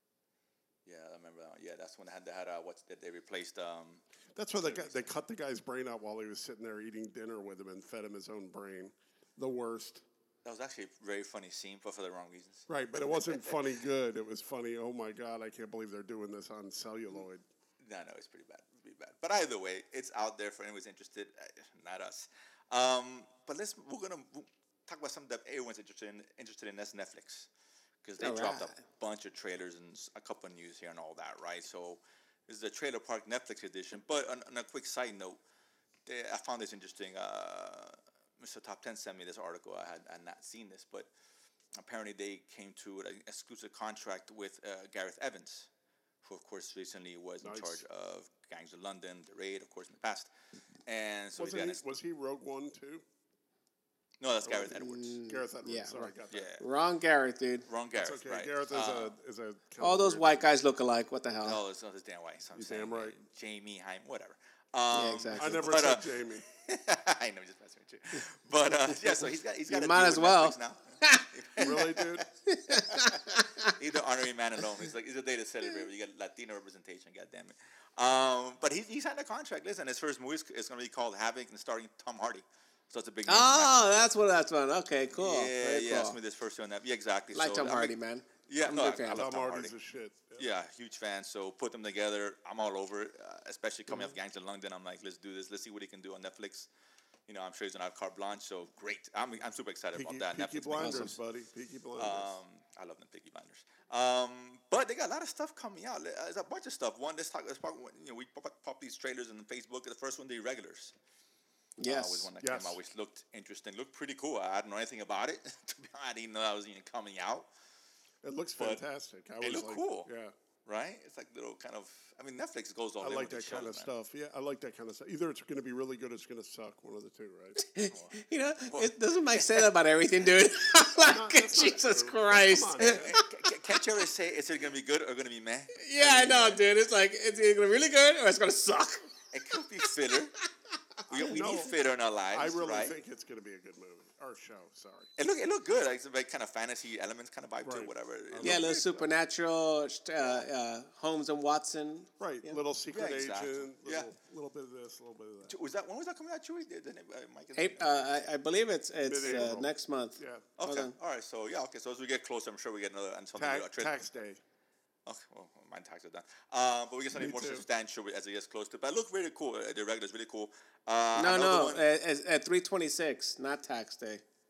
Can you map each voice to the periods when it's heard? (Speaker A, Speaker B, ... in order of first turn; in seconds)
Speaker A: 0.8-4.0, 4.5-5.1, 10.4-13.6, 17.8-27.5, 28.0-35.4, 36.0-41.1, 41.8-45.7, 46.2-50.3, 50.9-51.8, 54.2-55.2, 56.3-56.6, 57.7-59.1, 61.4-84.1, 85.2-87.9, 88.5-89.7, 90.4-96.7, 97.3-101.2, 102.0-110.9, 111.8-117.5, 119.4-120.1, 120.6-123.9, 127.8-129.7, 132.8-136.6, 139.3-140.3, 141.1-143.0, 145.2-149.0, 152.9-154.1, 155.5-158.1, 159.2-159.5, 160.6-163.9, 165.1-171.8
Speaker B: 4.3-10.0, 12.7-17.4, 47.4-47.8, 51.4-53.0, 54.4-56.6, 58.0-60.5, 62.5-63.1, 65.3-66.4, 71.6-72.2, 89.0-90.5, 99.9-102.3, 112.4-112.8, 118.2-120.3, 123.0-127.6, 131.0-133.2, 141.1-141.7, 142.3-145.1, 147.6-148.7, 152.2-155.6, 159.0-160.5, 163.3-164.4, 167.1-167.7
Speaker C: 28.2-28.7, 54.7-57.6, 59.8-61.6, 64.9-65.7, 69.7-71.7, 72.5-73.7, 83.3-86.2, 87.3-89.2, 100.8-101.1, 111.8-112.3, 127.6-133.2, 135.8-139.1, 148.4-152.6, 157.6-160.9, 171.2-174.2